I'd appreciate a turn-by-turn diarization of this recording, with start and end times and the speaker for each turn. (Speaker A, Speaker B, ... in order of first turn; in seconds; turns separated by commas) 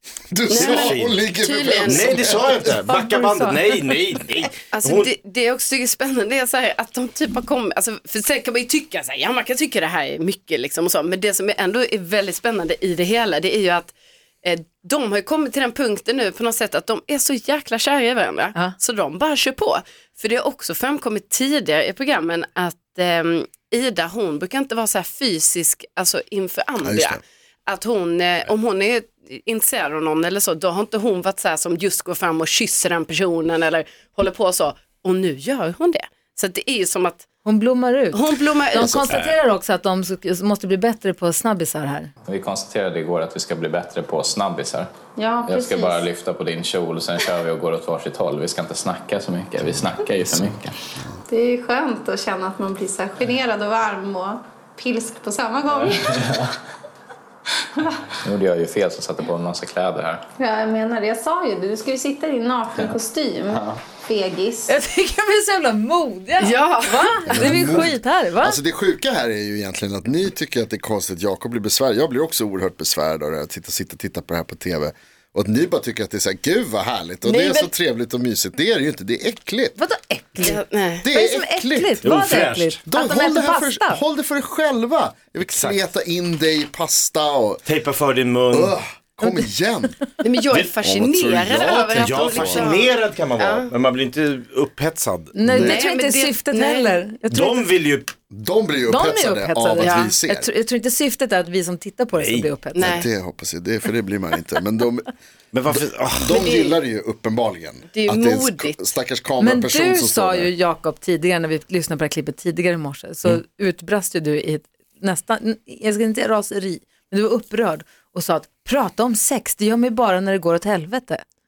Speaker A: 0.3-2.8, Speaker B: 0.5-2.6, Speaker C: 0.5-1.2, Speaker C: 1.9-5.1, Speaker D: 2.9-3.7, Speaker B: 4.7-37.3, Speaker A: 26.8-27.2, Speaker D: 37.4-42.1, Speaker B: 38.1-39.2, Speaker A: 38.8-39.1, Speaker E: 42.2-44.9, Speaker F: 45.2-46.1, Speaker E: 45.4-50.7, Speaker F: 51.3-56.2, Speaker E: 55.9-56.4, Speaker E: 58.2-60.2, Speaker F: 60.4-64.7, Speaker E: 63.5-63.8, Speaker D: 64.7-68.6, Speaker B: 66.4-67.7, Speaker A: 67.3-79.8, Speaker B: 77.2-77.7, Speaker D: 79.8-84.0, Speaker B: 80.4-81.0, Speaker A: 81.0-82.1, Speaker C: 82.0-82.8, Speaker A: 82.9-87.6, Speaker C: 85.5-85.8, Speaker C: 87.7-88.8, Speaker A: 88.5-90.0, Speaker B: 90.2-93.7, Speaker A: 90.6-92.7, Speaker C: 92.0-95.4, Speaker D: 95.3-97.6, Speaker A: 95.4-95.8, Speaker B: 95.5-97.0, Speaker C: 97.3-98.1, Speaker A: 98.3-100.5, Speaker D: 98.9-103.0, Speaker B: 99.8-100.1, Speaker C: 102.2-102.5, Speaker B: 102.8-103.1, Speaker A: 102.8-105.1, Speaker C: 105.5-106.4, Speaker A: 106.2-110.5, Speaker B: 106.3-106.8, Speaker B: 107.9-108.8, Speaker D: 109.4-121.2